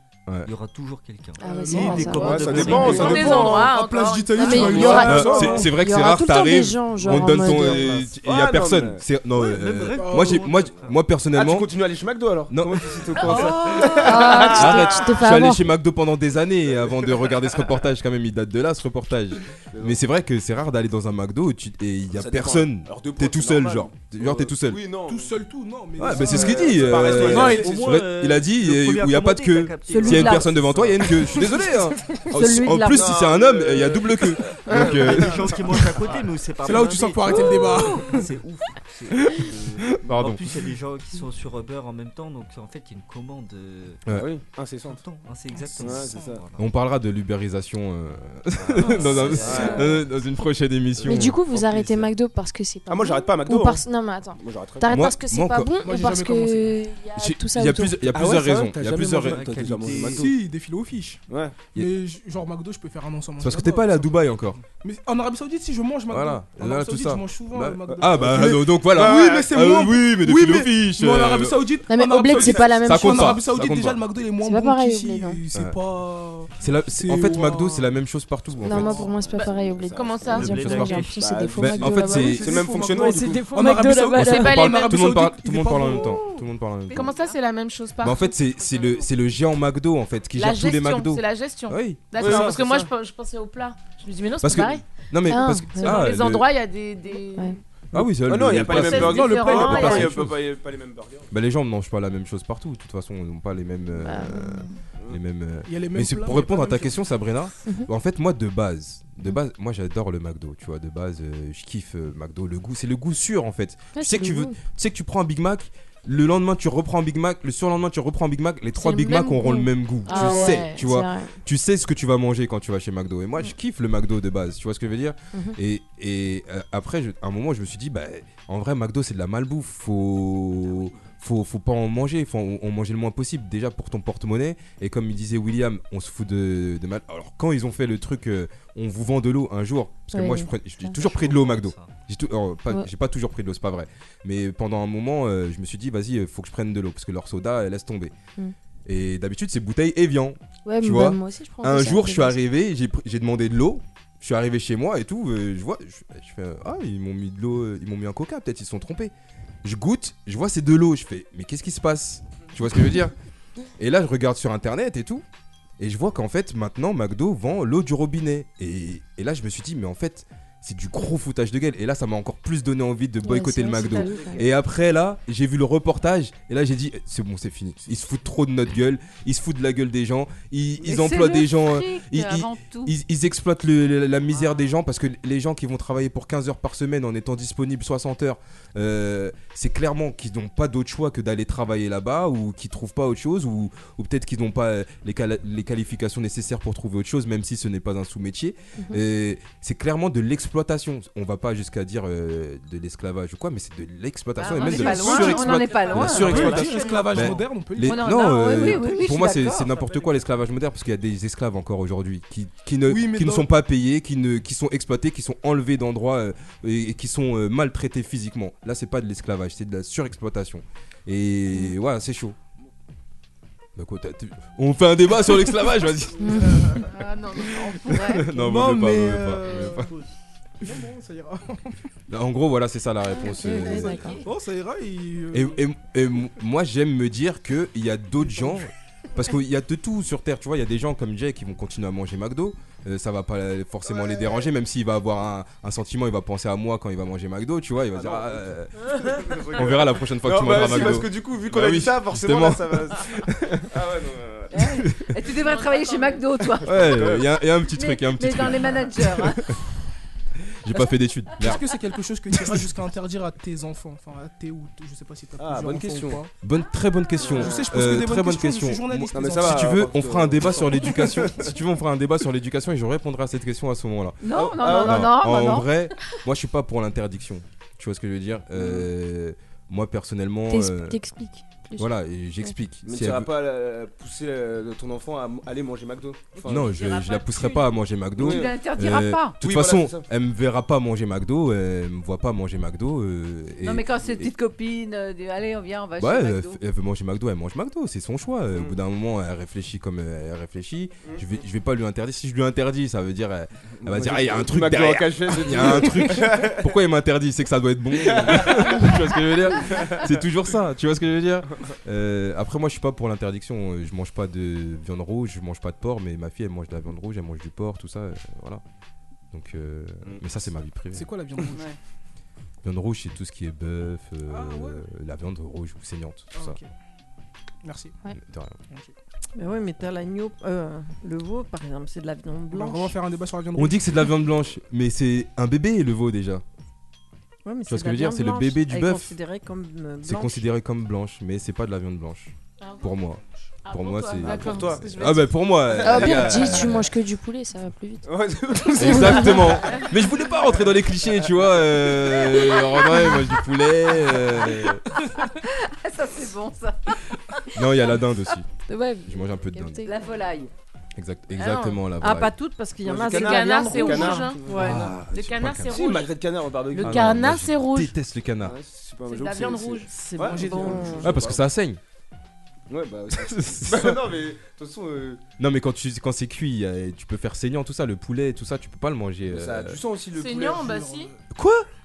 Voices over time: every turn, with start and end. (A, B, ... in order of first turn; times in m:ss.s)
0:00.4-0:03.5 A
0:01.4-0:02.9 B
0:01.4-0:05.8 C
0:01.8-0:03.8 D
0:02.5-0:02.9 E
0:02.9-0:05.0 F
0:04.4-0:08.1 B
0:04.4-0:05.7 D
0:04.8-0:11.7 E
0:07.0-0:09.0 D
0:09.3-0:11.0 A
0:10.0-0:10.5 C
0:11.3-0:15.3 D
0:12.5-0:24.8 E
0:13.9-0:15.7 B
0:16.7-0:17.8 D
0:19.7-0:20.0 D
0:22.1-0:25.4 D
0:25.0-0:27.9 C
0:26.0-0:35.5 E
0:26.0-0:28.0 D
0:27.1-0:31.7 A
0:29.9-0:30.5 G
0:32.3-0:33.1 G
0:32.8-0:36.2 D
0:34.7-0:44.0 A
0:36.6-0:38.3 C
0:40.0-0:40.6 E
0:44.1-0:45.0 D
0:44.8-0:46.7 A
0:45.5-0:46.4 C
0:45.8-0:46.4 D
0:46.6-0:51.4 E
0:48.6-0:50.0 D
0:48.8-0:50.0 A
0:51.0-0:52.1 D
0:51.0-0:58.1 B
0:52.9-0:55.1 D
0:54.8-0:55.7 E
0:55.8-0:56.8 C
0:57.2-1:00.0 E
0:58.1-1:00.3 D
0:59.2-1:00.3 A
1:00.0-1:01.2 C
1:01.3-1:01.6 D
1:01.7-1:04.1 C
1:03.4-1:04.6 E
1:04.7-1:17.9 C
1:06.1-1:11.6 E
1:07.9-1:09.5 D
1:11.9-1:13.4 B
1:12.3-1:14.0 E
1:12.3-1:12.7 D
1:14.4-1:15.4 B
1:16.6-1:19.1 E
1:18.6-1:22.4 B
1:18.6-1:23.6 D
1:18.7-1:19.1 C
1:19.3-1:20.4 F
1:20.3-1:21.3 A
1:20.4-1:21.0 E
1:21.5-1:22.7 E
1:21.9-1:26.3 C
1:23.0-1:24.4 B
1:24.1-1:25.0 F
1:24.1-1:27.2 E
1:26.8-1:27.4 H
1:26.9-1:28.4 F
1:28.0-1:32.6 E
1:28.4-1:29.1 H
1:30.3-1:34.8 F
1:32.2-1:32.9 D
1:34.4-1:36.5 E
1:35.2-1:36.1 B
1:35.6-1:37.6 F
1:37.9-1:40.4 E
1:38.2-1:41.3 D
1:38.7-1:40.1 F
1:39.0-1:40.1 C
1:41.3-2:28.1 E
1:43.9-1:44.6 B
1:45.6-1:47.1 C
1:53.9-1:54.6 B
1:58.8-1:59.5 F
1:58.9-2:01.4 B
2:00.0-2:00.8 F
2:20.1-2:21.0 B
2:20.9-2:21.9 A
2:28.8-2:39.1 E
2:30.6-2:32.4 B
2:39.6-2:43.1 E
2:43.8-2:45.2 E
2:45.8-3:42.4 E
2:53.2-2:54.4 B
2:53.8-2:54.4 H
3:00.8-3:02.9 H
3:24.4-3:27.0 H
3:24.6-3:28.9 C
3:25.8-3:27.4 A
3:27.8-3:29.9 H
3:32.8-3:33.5 C
3:43.8-3:46.9 E
3:46.2-3:46.6 B
3:46.8-3:48.0 F
3:47.6-3:49.9 E
3:47.7-3:48.3 H
3:48.3-3:49.9 C
3:50.6-3:51.7 C
3:52.1-3:54.2 E
3:53.1-3:54.2 B
3:53.5-3:55.6 C
3:55.3-4:08.8 E
3:58.3-3:58.5 C
4:03.8-4:04.5 D
4:07.9-4:14.6 D
4:09.5-4:13.6 E
4:14.5-4:17.0 H
4:14.8-4:15.1 E
4:15.4-4:16.2 F
4:16.6-4:19.5 E
4:16.7-4:17.3 D
4:17.7-4:19.5 H
4:20.6-4:21.7 E
4:21.4-4:26.3 C
4:22.3-4:22.6 E
4:25.4-4:26.2 D
4:26.4-4:41.0 E
4:27.2-4:27.9 D
4:27.3-4:29.9 C
4:29.1-4:31.6 D
4:34.2-4:35.8 H
4:34.3-4:35.2 D
4:38.5-4:38.9 D
4:40.5-4:42.5 B
4:41.8-4:43.3 E
4:42.8-4:46.8 D
4:46.4-4:49.4 H
4:46.4-4:54.3 E
4:48.2-4:48.6 D
4:49.4-4:50.1 D
4:53.6-4:56.6 H
4:56.0-5:18.6 E
5:01.0-5:01.4 D
5:03.8-5:06.8 D
5:08.0-5:09.0 D
5:09.6-5:10.2 D
5:19.3-5:21.1 E
5:20.9-5:21.7 C
5:21.5-5:21.8 H
5:22.6-5:26.6 E
5:24.3-5:24.8 C
5:26.3-5:26.7 C
5:27.6-5:28.0 C
5:28.2-5:28.6 E
5:29.4-5:32.9 G
5:32.5-5:33.9 C
5:33.5-5:36.4 E
5:37.4-5:40.4 G
5:37.7-5:39.1 E
5:40.0-5:46.9 E
5:42.6-5:42.9 F
5:43.6-5:45.3 F
5:44.2-5:46.8 D
5:45.8-5:48.1 B
5:48.0-5:49.8 D
5:48.8-5:49.6 B
5:48.8-5:54.8 E
5:51.2-5:51.5 D
5:55.2-5:56.9 H
5:57.5-5:58.5 E
5:58.6-6:00.2 B
5:59.0-5:59.9 E
5:59.8-6:00.5 H
6:01.0-6:02.4 E
6:01.4-6:01.8 F
6:02.0-6:04.9 G
6:02.8-6:05.1 D
6:03.0-6:06.2 F
6:04.5-6:05.9 E
6:05.6-6:07.3 D
6:06.7-6:07.9 F
6:06.8-6:08.6 E
6:08.4-6:11.5 D
6:09.1-6:09.9 F
6:09.9-6:11.0 G
6:10.1-6:11.1 C
6:11.0-6:11.8 E
6:12.7-6:15.2 D
6:13.1-6:14.0 E
6:15.4-6:19.8 E
6:19.3-6:20.8 D
6:20.1-6:21.1 F
6:20.5-6:21.2 C
6:21.3-6:21.7 E